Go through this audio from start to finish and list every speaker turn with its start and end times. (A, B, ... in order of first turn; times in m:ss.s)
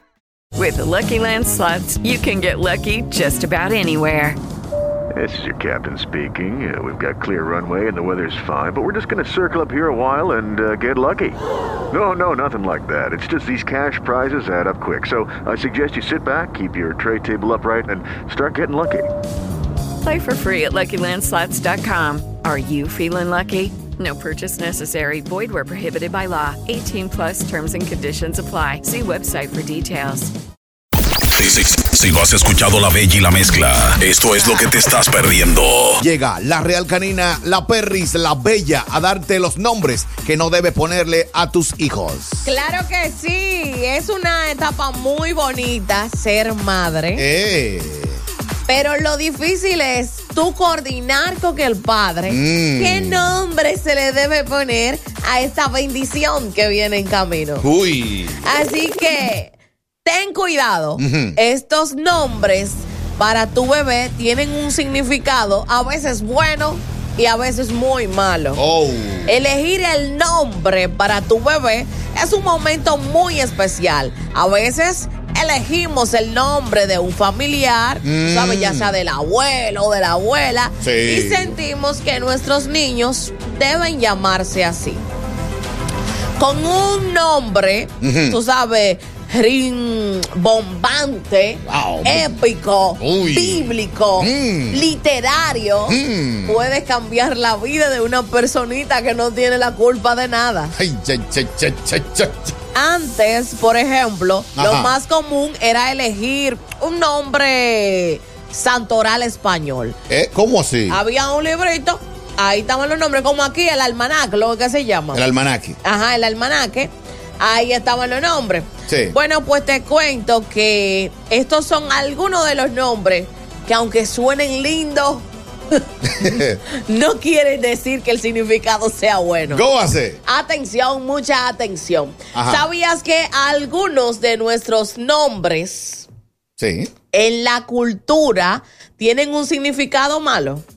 0:00.5-0:04.4 A
0:05.1-0:19.1 B
0:20.0-0:30.3 A
0:31.3-0:36.0 C
0:36.0-0:42.5 D
0:42.4-0:47.2 E
0:47.2-0:48.2 D
0:48.7-0:57.6 E
0:52.3-0:53.3 D
0:57.6-0:58.4 D
0:58.4-0:59.5 E
1:00.0-1:08.6 E
1:01.0-1:01.4 D
1:08.6-1:09.4 D
1:09.3-1:25.0 E
1:18.0-1:19.0 D
1:20.8-1:21.6 D
1:26.4-1:40.7 E
1:28.0-1:28.4 D
1:31.6-1:32.4 D
1:33.0-1:34.8 D
1:35.9-1:36.6 D
1:40.7-1:42.5 D
1:42.7-1:50.0 E
1:44.6-1:44.9 D
1:50.1-1:51.0 D
1:50.9-1:55.2 E
1:55.1-1:55.8 D
1:55.8-2:05.3 E
1:58.9-1:59.2 D
2:06.1-2:06.6 D
2:06.2-2:09.6 E
2:09.5-2:10.2 D
2:10.2-2:16.1 E
2:12.3-2:12.7 D
2:16.6-2:16.9 D
2:17.1-2:20.6 E